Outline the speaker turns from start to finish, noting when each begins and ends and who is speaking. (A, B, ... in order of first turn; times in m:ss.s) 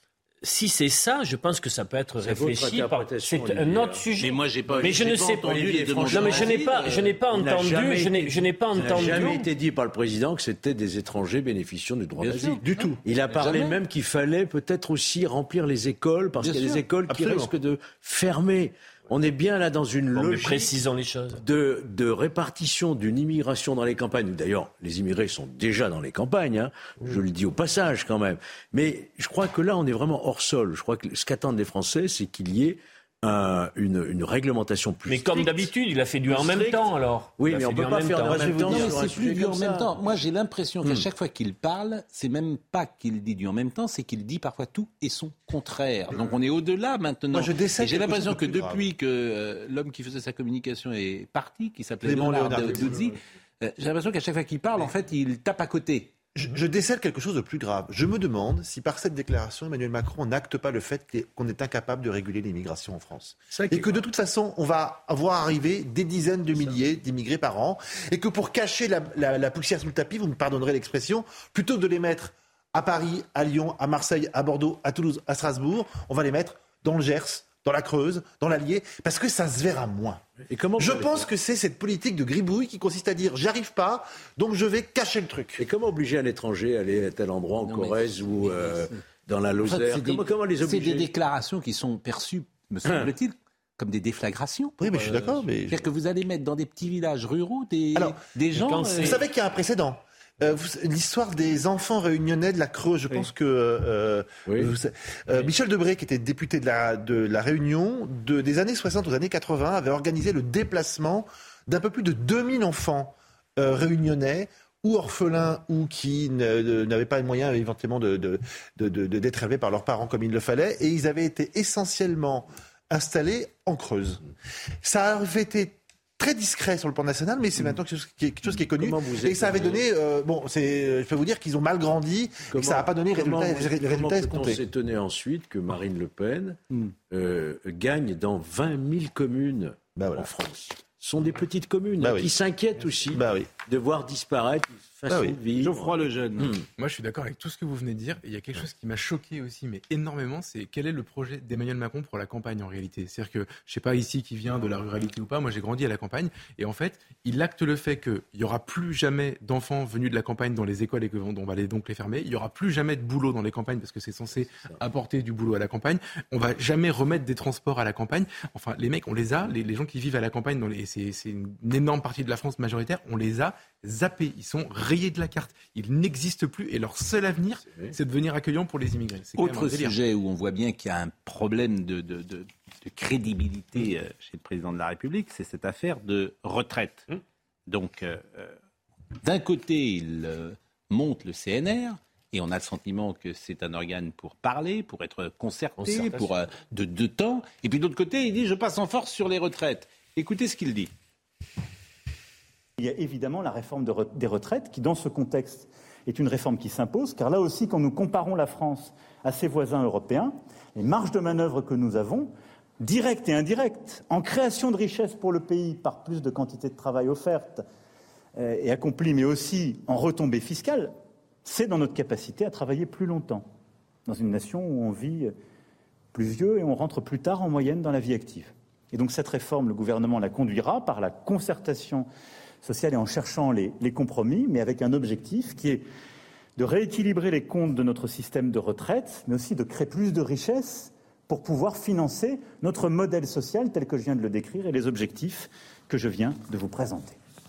0:00.4-0:09.4 A
0:02.2-0:04.0 B
0:04.2-0:07.2 C
0:04.6-0:06.7 B
0:07.3-0:20.8 B
0:08.8-0:09.3 C
0:12.2-0:13.8 C
0:12.6-0:13.0 D
0:16.4-0:17.4 C
0:20.1-0:21.4 A
0:21.3-0:35.7 B
0:35.1-0:39.0 A
0:36.3-0:36.8 B
0:37.4-0:40.0 B
0:38.3-0:56.1 C
0:47.3-0:48.9 D
0:52.0-0:53.1 D
0:56.4-1:20.2 D
1:03.5-1:04.0 B
1:20.5-1:21.3 B
1:20.8-1:25.6 D
1:25.6-1:31.1 B
1:27.6-1:28.9 C
1:29.6-1:39.2 C
1:34.8-1:35.8 D
1:38.6-1:39.2 A
1:39.0-2:04.2 D
1:44.5-1:44.7 B
2:04.8-2:14.6 D
2:08.8-2:09.8 B
2:12.5-2:26.6 B
2:20.0-2:20.3 D
2:22.0-2:22.3 D
2:23.1-2:23.5 D
2:25.1-2:25.4 D
2:25.6-2:26.6 C
2:26.8-3:00.0 E
2:59.4-3:07.1 C
3:07.7-3:08.5 C
3:09.2-3:20.9 C
3:15.8-3:16.4 A
3:22.8-3:37.6 F
3:38.4-3:40.9 F
3:41.4-3:43.5 F
3:44.1-3:45.3 F
3:46.1-3:52.1 F
3:52.6-3:55.8 F
3:56.6-4:07.2 F